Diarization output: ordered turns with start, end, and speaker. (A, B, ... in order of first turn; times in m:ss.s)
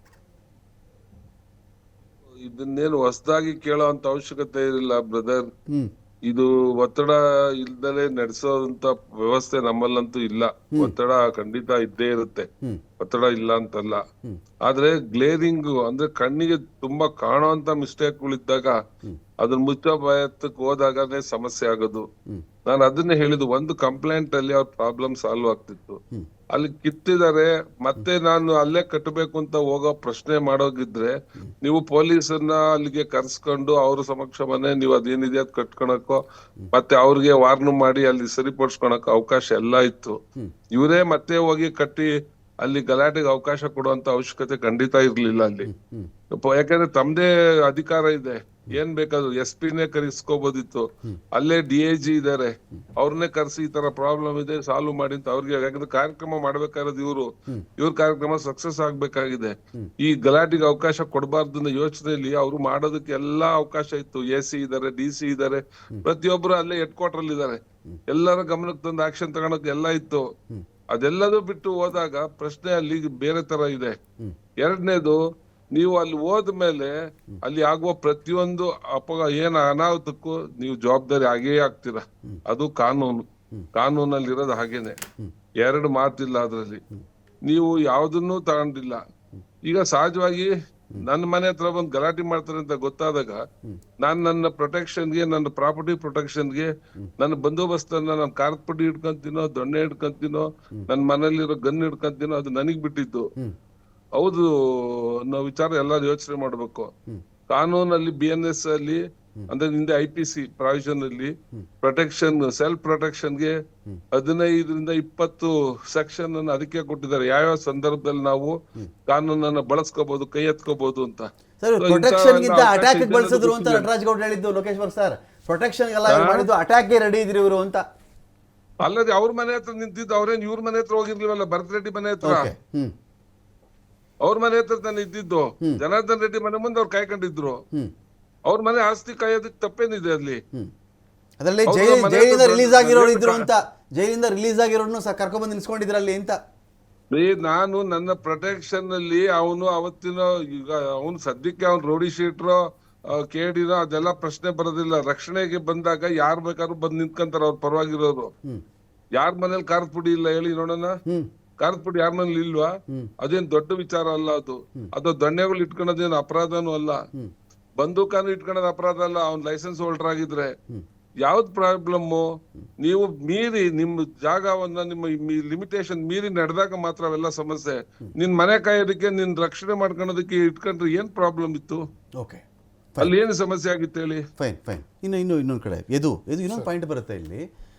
0:02.4-0:05.4 A
0:06.3-0:12.5 A
0:13.0-0:14.0 A
0:14.6-0:18.8 A
0:19.4-0:22.0 A
0:22.6-0:26.0 A
0:26.5-0:36.2 A
0:36.7-0:40.2 A
0:40.7-0:42.1 A
0:42.6-0:45.7 A
0:45.7-0:46.1 B
0:46.3-1:10.2 A
1:10.9-1:14.0 A
1:14.6-1:15.2 A
1:15.7-1:25.0 A
1:25.6-1:26.8 A
1:27.4-1:29.0 A
1:29.6-1:33.4 A
1:34.0-1:43.3 A
1:44.2-1:46.9 A
1:47.5-1:53.6 A
1:54.1-1:58.6 A
1:59.1-2:01.3 A
2:01.6-2:07.8 B
2:01.8-2:03.9 A
2:06.1-2:06.5 A
2:08.8-2:12.5 A
2:12.2-2:12.9 B
2:14.2-2:17.6 A
2:18.5-2:20.4 A
2:21.4-2:26.4 B
2:21.7-2:23.5 A
2:27.1-2:32.6 A
2:33.1-2:38.3 A
2:39.2-2:41.0 A
2:41.6-2:47.0 A
2:47.8-2:50.5 A
2:51.2-2:52.2 A
2:52.8-3:01.8 A
3:03.0-3:04.2 A
3:04.4-3:07.5 B